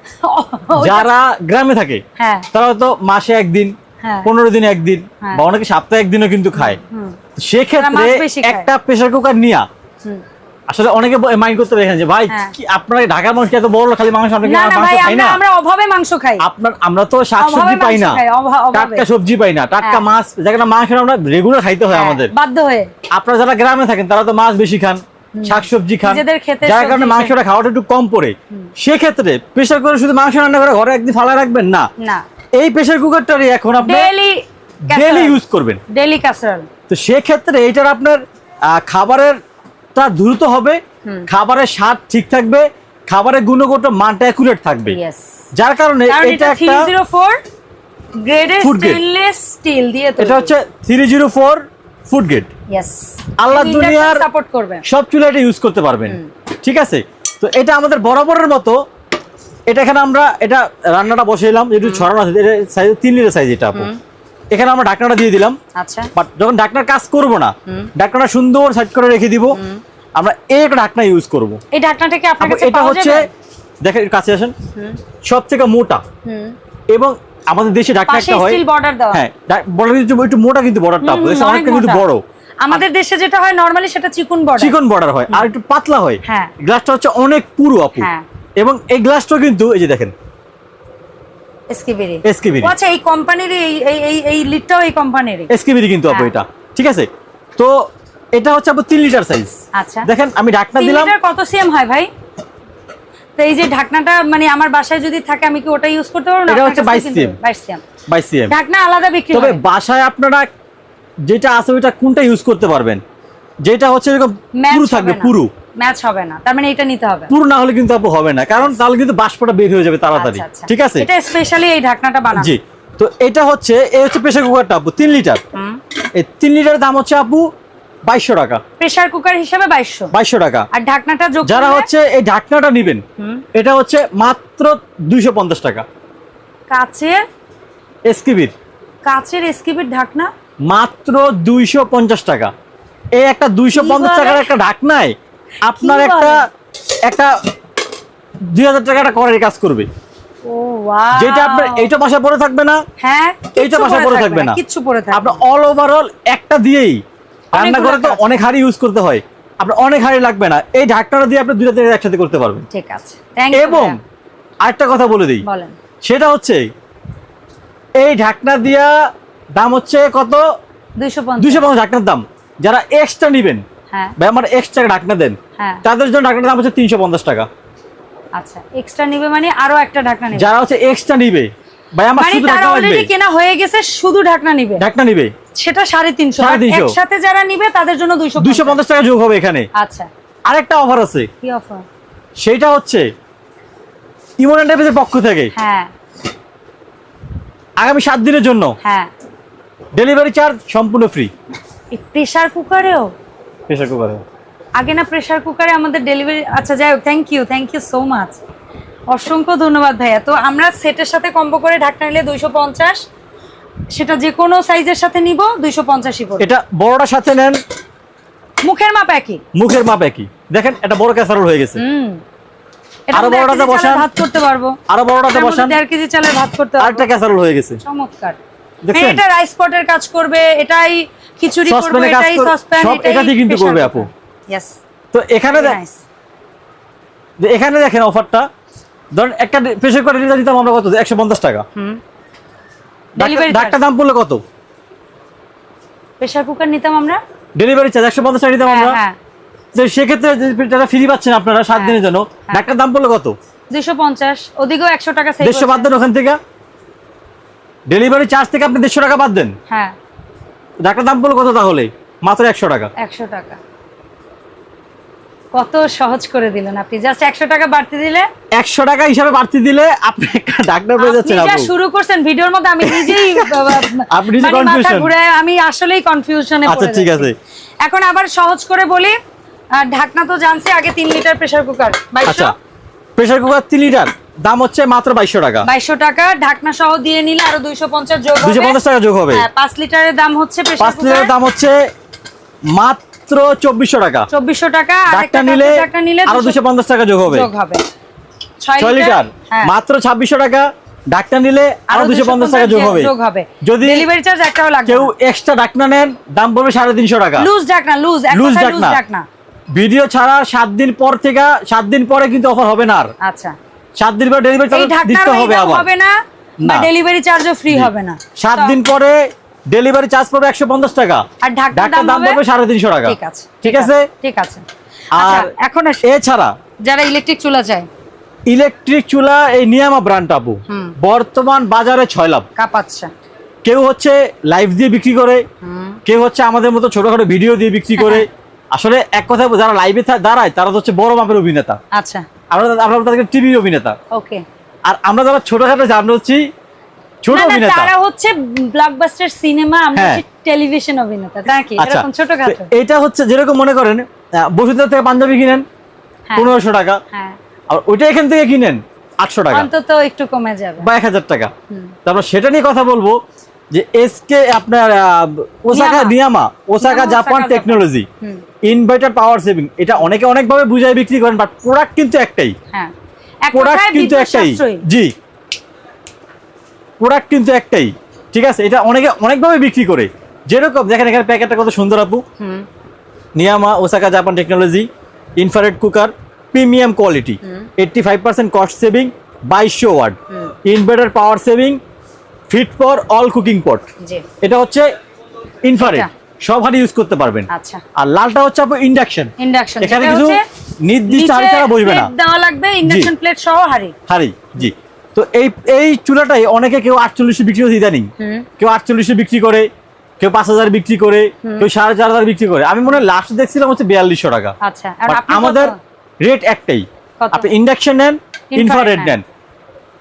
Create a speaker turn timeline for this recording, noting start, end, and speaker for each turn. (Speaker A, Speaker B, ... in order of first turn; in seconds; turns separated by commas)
Speaker A: 0.2-1.1, Speaker B: 0.8-2.0, Speaker A: 2.2-2.5, Speaker B: 2.5-6.8, Speaker A: 4.0-4.3, Speaker A: 6.5-7.2, Speaker B: 7.4-9.7, Speaker A: 7.8-8.7, Speaker B: 10.7-15.4, Speaker A: 12.3-12.6, Speaker A: 14.4-16.4, Speaker B: 16.4-18.2, Speaker A: 17.4-19.1, Speaker B: 18.7-22.3, Speaker A: 21.9-22.9, Speaker B: 23.1-31.9, Speaker A: 25.4-27.4, Speaker A: 32.0-32.2, Speaker B: 32.5-34.1, Speaker A: 33.8-35.4, Speaker B: 34.9-35.8, Speaker A: 35.9-36.7, Speaker B: 36.9-39.4, Speaker B: 40.0-45.0, Speaker A: 44.9-45.4, Speaker B: 45.5-46.9, Speaker A: 46.1-47.4, Speaker A: 48.1-50.5, Speaker B: 48.6-49.0, Speaker B: 50.2-52.5, Speaker A: 52.7-54.8, Speaker B: 53.4-54.2, Speaker B: 54.9-58.8, Speaker B: 59.7-63.9, Speaker A: 61.8-62.1, Speaker B: 64.5-65.6, Speaker A: 65.8-66.1, Speaker B: 66.2-69.6, Speaker A: 69.5-69.8, Speaker B: 70.2-71.6, Speaker A: 71.7-73.3, Speaker B: 72.4-73.3, Speaker B: 73.8-74.5, Speaker B: 75.3-76.0, Speaker A: 76.2-76.6, Speaker B: 76.9-82.8, Speaker A: 78.1-79.2, Speaker A: 81.0-82.1, Speaker A: 82.6-84.7, Speaker B: 84.6-90.1, Speaker A: 86.2-86.5, Speaker A: 88.0-88.2, Speaker A: 91.7-95.5, Speaker B: 92.2-92.7, Speaker B: 95.5-101.1, Speaker A: 96.1-96.3, Speaker A: 99.8-100.1, Speaker A: 100.8-102.1, Speaker A: 103.4-107.8, Speaker B: 106.5-107.4, Speaker B: 108.1-108.5, Speaker A: 108.5-109.7, Speaker B: 109.3-110.5, Speaker B: 111.2-113.0, Speaker B: 113.6-115.5, Speaker A: 114.6-117.3, Speaker B: 117.3-121.1, Speaker A: 120.2-122.5, Speaker B: 122.3-125.4, Speaker A: 125.5-125.8, Speaker B: 126.2-127.5, Speaker B: 128.1-128.6, Speaker A: 128.8-130.1, Speaker B: 130.1-130.7, Speaker A: 130.7-131.9, Speaker B: 131.4-133.0, Speaker B: 133.5-135.8, Speaker A: 136.7-137.2, Speaker B: 138.1-138.5, Speaker A: 139.1-140.3, Speaker B: 140.7-142.5, Speaker B: 143.2-146.4, Speaker A: 143.7-144.5, Speaker A: 145.7-146.4, Speaker B: 147.0-147.4, Speaker B: 148.5-149.9, Speaker A: 150.5-151.9, Speaker B: 151.2-152.8, Speaker A: 153.0-155.4, Speaker B: 153.6-154.6, Speaker B: 155.1-157.0, Speaker A: 157.5-158.2, Speaker B: 157.5-162.7, Speaker A: 162.7-164.0, Speaker B: 163.5-164.0, Speaker B: 164.6-165.4, Speaker A: 165.4-165.8, Speaker B: 166.0-166.7, Speaker B: 168.0-168.9, Speaker B: 169.6-170.4, Speaker A: 171.0-171.7, Speaker B: 171.4-173.6, Speaker B: 174.2-177.5, Speaker A: 175.6-175.8, Speaker A: 178.4-180.5, Speaker B: 180.3-183.1, Speaker A: 182.2-184.8, Speaker B: 184.8-185.3, Speaker A: 185.5-188.8, Speaker B: 186.4-187.0, Speaker B: 188.4-189.7, Speaker A: 189.8-190.1, Speaker B: 190.5-191.3, Speaker A: 191.4-191.8, Speaker B: 192.4-193.1, Speaker B: 194.4-195.5, Speaker A: 195.6-195.9, Speaker B: 197.8-198.8, Speaker A: 198.8-199.1, Speaker B: 199.9-201.3, Speaker A: 201.9-203.1, Speaker B: 203.7-204.2, Speaker A: 204.8-208.4, Speaker A: 209.1-213.0, Speaker A: 213.9-216.5, Speaker B: 216.4-217.6, Speaker A: 218.6-219.4, Speaker B: 219.5-221.8, Speaker A: 221.8-222.2, Speaker A: 223.1-224.8, Speaker B: 223.1-224.1, Speaker B: 224.9-225.8, Speaker A: 225.3-227.1, Speaker B: 226.8-227.8, Speaker A: 227.8-228.4, Speaker B: 228.8-229.2, Speaker A: 228.9-234.8, Speaker B: 231.7-234.1, Speaker B: 235.1-235.8, Speaker A: 235.5-236.0, Speaker B: 237.4-238.5, Speaker B: 239.1-241.7, Speaker B: 243.2-244.4, Speaker A: 243.2-243.8, Speaker A: 246.2-247.2, Speaker B: 247.6-249.0, Speaker A: 248.6-249.2, Speaker B: 249.7-253.4, Speaker A: 251.7-252.7, Speaker A: 253.7-255.9, Speaker B: 255.4-256.4, Speaker B: 257.9-259.6, Speaker A: 259.7-259.9, Speaker B: 260.8-262.9, Speaker A: 263.0-263.6, Speaker A: 265.5-268.3, Speaker B: 268.5-271.7, Speaker A: 271.0-277.3, Speaker B: 272.8-275.1, Speaker B: 276.7-277.4, Speaker A: 277.8-279.2, Speaker A: 279.7-282.6, Speaker B: 282.2-282.6, Speaker B: 283.2-285.7, Speaker A: 285.6-288.8, Speaker B: 288.4-289.5, Speaker A: 289.3-291.3, Speaker B: 290.8-291.8, Speaker B: 292.7-294.3, Speaker A: 294.3-296.6, Speaker B: 295.1-297.5, Speaker A: 297.3-297.8, Speaker A: 298.6-299.7, Speaker B: 298.8-304.1, Speaker A: 301.9-305.1, Speaker B: 304.9-307.5, Speaker A: 307.4-309.2, Speaker B: 308.3-309.0, Speaker B: 309.7-313.1, Speaker A: 313.2-313.5, Speaker B: 314.0-315.9, Speaker A: 314.7-318.8, Speaker B: 316.6-316.9, Speaker B: 317.7-324.1, Speaker A: 321.4-322.4, Speaker A: 323.1-324.6, Speaker B: 325.1-326.5, Speaker A: 325.2-326.0, Speaker A: 326.9-327.9, Speaker B: 328.5-332.5, Speaker A: 330.7-330.9, Speaker A: 332.6-333.1, Speaker B: 333.6-335.4, Speaker A: 335.6-336.0, Speaker B: 336.1-341.8, Speaker A: 338.0-338.3, Speaker A: 341.9-342.2, Speaker B: 342.5-344.0, Speaker A: 344.1-344.4, Speaker B: 344.9-346.4, Speaker B: 347.2-347.9, Speaker A: 347.3-352.7, Speaker B: 349.9-350.2, Speaker B: 351.8-355.6, Speaker A: 356.3-356.5, Speaker B: 356.4-357.0, Speaker B: 357.7-359.7, Speaker A: 359.5-360.9, Speaker B: 360.8-361.5, Speaker B: 362.1-363.2, Speaker B: 363.7-368.1, Speaker A: 365.7-366.2, Speaker A: 366.8-368.4, Speaker B: 368.6-372.6, Speaker A: 373.4-374.8, Speaker B: 373.5-375.1, Speaker B: 377.0-382.2, Speaker A: 382.4-382.7, Speaker B: 383.4-391.8, Speaker A: 387.4-387.7, Speaker B: 392.5-393.9, Speaker B: 394.4-394.9, Speaker B: 395.6-402.1, Speaker A: 395.8-396.1, Speaker A: 397.5-397.8, Speaker A: 399.4-400.4, Speaker A: 401.1-403.9, Speaker B: 402.8-403.1, Speaker B: 404.1-408.1, Speaker A: 408.2-408.5, Speaker B: 408.6-409.7, Speaker B: 410.2-414.6, Speaker A: 414.6-415.8, Speaker B: 415.1-419.2, Speaker A: 417.2-417.5, Speaker A: 418.5-419.2